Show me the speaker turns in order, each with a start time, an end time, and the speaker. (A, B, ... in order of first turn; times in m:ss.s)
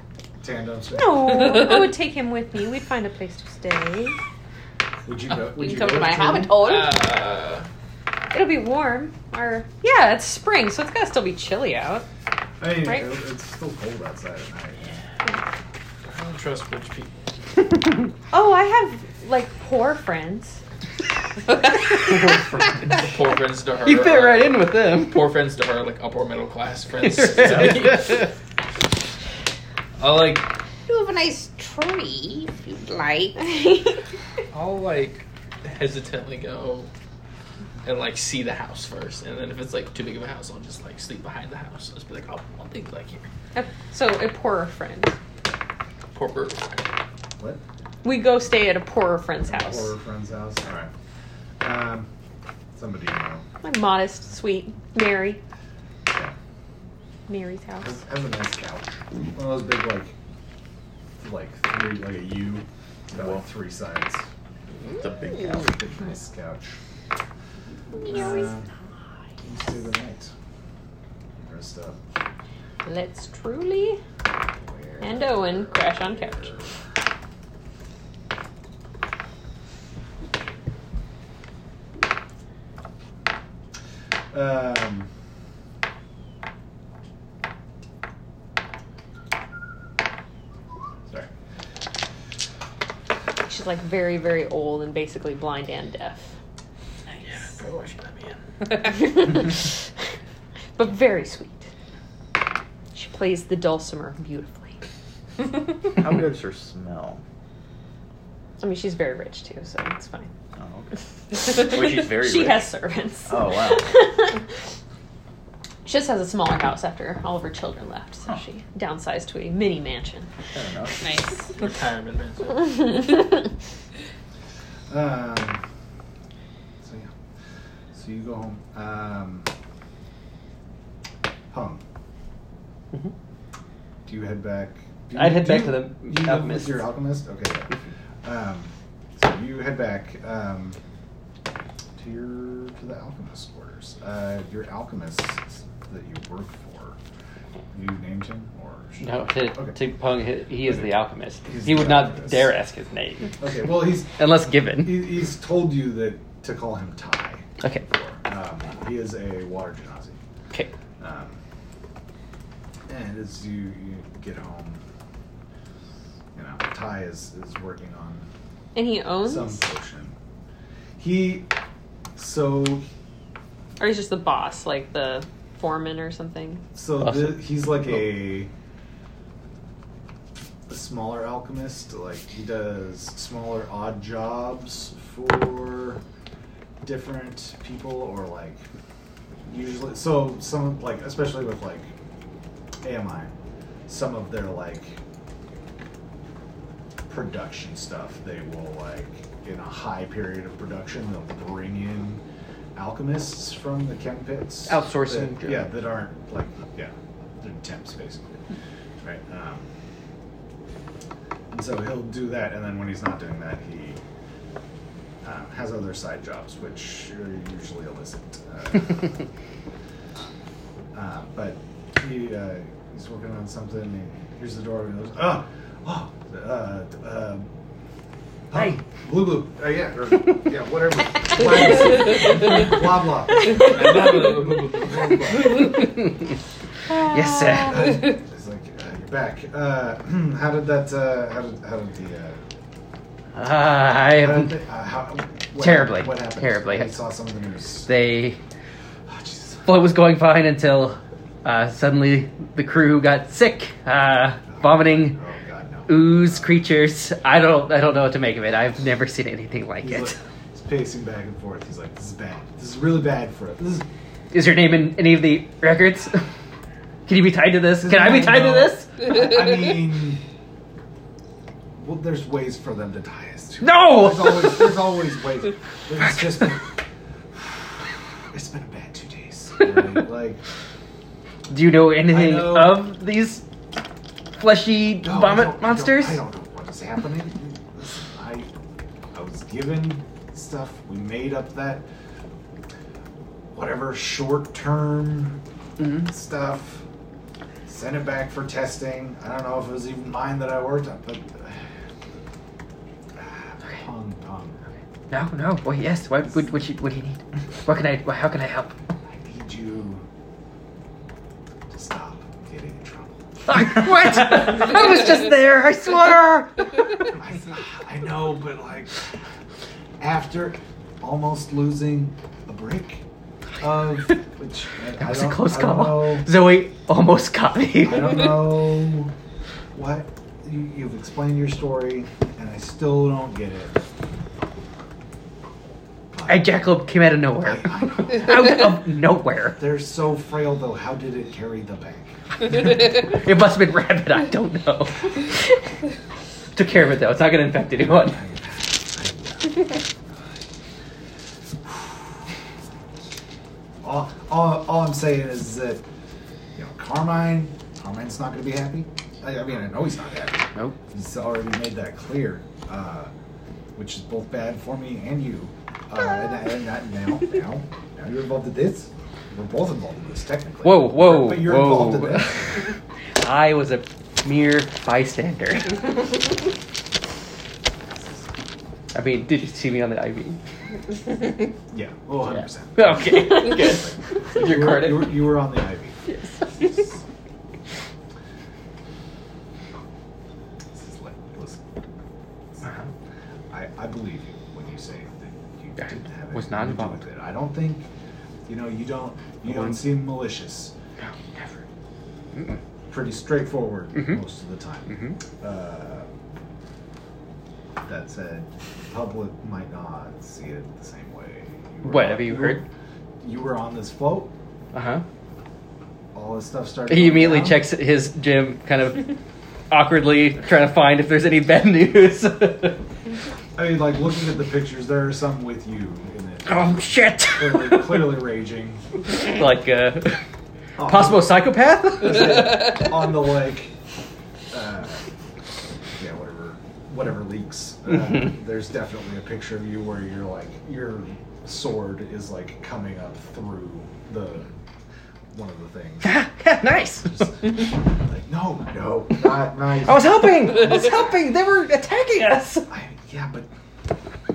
0:00.4-0:01.6 A
0:00.9-0:04.2 B
0:05.1-0:06.5 A
0:05.6-0:06.9 B
0:06.6-0:07.7 C
0:08.3-0:12.1 B
0:12.6-0:15.0 A
0:16.1-0:17.2 C
0:18.3-0:20.6 B
0:22.1-0:22.4 D
0:22.9-0:28.3 C
0:23.8-0:25.3 D
0:27.2-0:27.7 D
0:30.0-0:30.5 C
0:30.9-0:33.6 E
0:33.4-0:34.0 B
0:34.5-0:36.9 C
0:37.8-0:43.3 C
0:43.6-0:45.2 B
0:46.1-0:46.8 C
0:48.0-0:49.9 B
0:49.5-0:50.9 A
0:51.6-0:52.1 A
0:52.8-0:53.4 A
0:53.6-0:55.4 B
0:57.3-0:57.9 B
0:57.8-1:00.2 A
1:01.2-1:04.3 A
1:03.1-1:03.4 F
1:04.9-1:05.8 F
1:05.6-1:06.8 A
1:08.0-1:08.5 B
1:08.0-1:08.7 A
1:09.4-1:10.3 A
1:11.4-1:12.0 A
1:12.8-1:14.0 B
1:14.6-1:16.8 A
1:15.0-1:16.5 B
1:24.3-1:25.1 A
1:33.4-1:36.3 B
1:37.9-1:38.4 C
1:38.7-1:39.8 B
1:40.8-1:41.7 B
1:42.9-1:44.8 B
1:46.0-1:47.2 F
1:48.6-1:50.3 B
1:50.6-1:52.8 F
1:51.3-1:54.4 B
1:53.3-1:53.9 F
1:55.8-2:00.3 B
2:00.5-2:01.1 F
2:01.0-2:01.3 B
2:01.6-2:02.8 C
2:04.9-2:05.6 A
2:06.8-2:07.1 A
2:07.9-2:09.5 A
2:11.5-2:11.8 A
2:14.1-2:20.8 A
2:15.1-2:16.9 D
2:22.0-2:27.0 A
2:27.7-2:29.8 A
2:29.0-2:33.5 D
2:30.6-2:30.9 A
2:31.4-2:32.5 A
2:33.4-2:34.2 A
2:34.2-2:35.1 D
2:34.8-2:40.2 A
2:37.6-2:37.9 D
2:41.0-2:41.4 A
2:42.9-2:44.8 A
2:46.3-2:48.3 A
2:48.7-2:49.6 B
2:49.2-2:50.2 A
2:51.0-2:51.5 A
2:52.2-2:52.8 A
2:53.8-2:56.6 B
2:56.8-2:58.5 A
2:57.0-2:57.5 D
3:00.7-3:06.0 A
3:06.8-3:08.6 A
3:09.5-3:11.9 A
3:12.8-3:13.4 A
3:13.9-3:15.0 A
3:17.1-3:22.2 A
3:22.8-3:28.4 A
3:24.7-3:25.7 D
3:29.0-3:29.7 A
3:31.5-3:34.0 A
3:35.2-3:39.3 A
3:40.9-3:47.5 A
3:48.5-3:55.9 A
3:48.5-3:48.8 D
3:53.6-3:55.6 C
3:55.7-3:56.2 D
3:56.9-3:58.1 D
3:57.6-4:02.4 A
4:03.4-4:04.6 D
4:04.2-4:07.9 A
4:05.6-4:07.0 D
4:07.9-4:08.4 D
4:09.1-4:09.8 A
4:09.6-4:15.2 D
4:14.5-4:16.6 A
4:15.9-4:20.2 D
4:19.8-4:23.9 A
4:24.3-4:26.3 D
4:27.1-4:28.9 D
4:27.8-4:30.2 A
4:31.8-4:36.8 A
4:33.6-4:34.7 D
4:38.3-4:40.4 A
4:41.5-4:43.4 D
4:42.1-4:42.9 A
4:44.4-4:46.2 D
4:45.0-4:48.5 A
4:49.1-4:51.9 A
4:53.5-4:56.8 A
4:55.8-4:56.1 D
4:57.7-5:01.7 A
5:03.2-5:04.6 A
5:05.1-5:08.7 D
5:09.1-5:10.0 A
5:11.7-5:13.7 A
5:13.5-5:16.9 D
5:17.1-5:19.0 A
5:20.0-5:23.0 A
5:23.6-5:26.3 A
5:25.0-5:28.6 D
5:27.8-5:29.1 A
5:29.7-5:33.8 A
5:36.1-5:36.6 A
5:36.3-5:39.6 D
5:37.4-5:38.6 A
5:39.6-5:42.1 A
5:42.8-5:45.3 D
5:46.6-5:48.2 D
5:47.9-5:50.4 A
5:53.8-5:55.8 A
5:56.6-6:03.1 A
6:03.8-6:12.6 A
6:10.6-6:12.5 D
6:13.2-6:15.9 D
6:18.9-6:20.4 D
6:21.7-6:26.0 A
6:22.3-6:25.4 D
6:30.7-6:31.6 A
6:32.6-6:32.9 D
6:33.5-6:37.9 A
6:35.8-6:37.1 D
6:38.5-6:40.7 A
6:39.5-6:39.9 D
6:42.4-6:42.6 D
6:42.9-6:46.1 A
6:44.0-6:44.2 D
6:44.9-6:45.2 D
6:47.8-6:52.6 A
6:51.8-6:52.6 D
6:53.2-6:54.3 A
6:54.7-6:55.0 D
6:56.1-6:57.7 A
6:56.9-6:59.2 D
6:59.7-7:02.8 D
7:03.6-7:08.8 A
7:06.5-7:08.2 D
7:09.2-7:10.2 D
7:10.8-7:11.3 A
7:10.8-7:12.8 D
7:12.0-7:13.7 A
7:14.5-7:15.0 A
7:16.0-7:24.5 A
7:25.3-7:26.3 A
7:26.0-7:27.2 D
7:27.0-7:31.0 A
7:29.8-7:32.7 D
7:32.7-7:33.5 A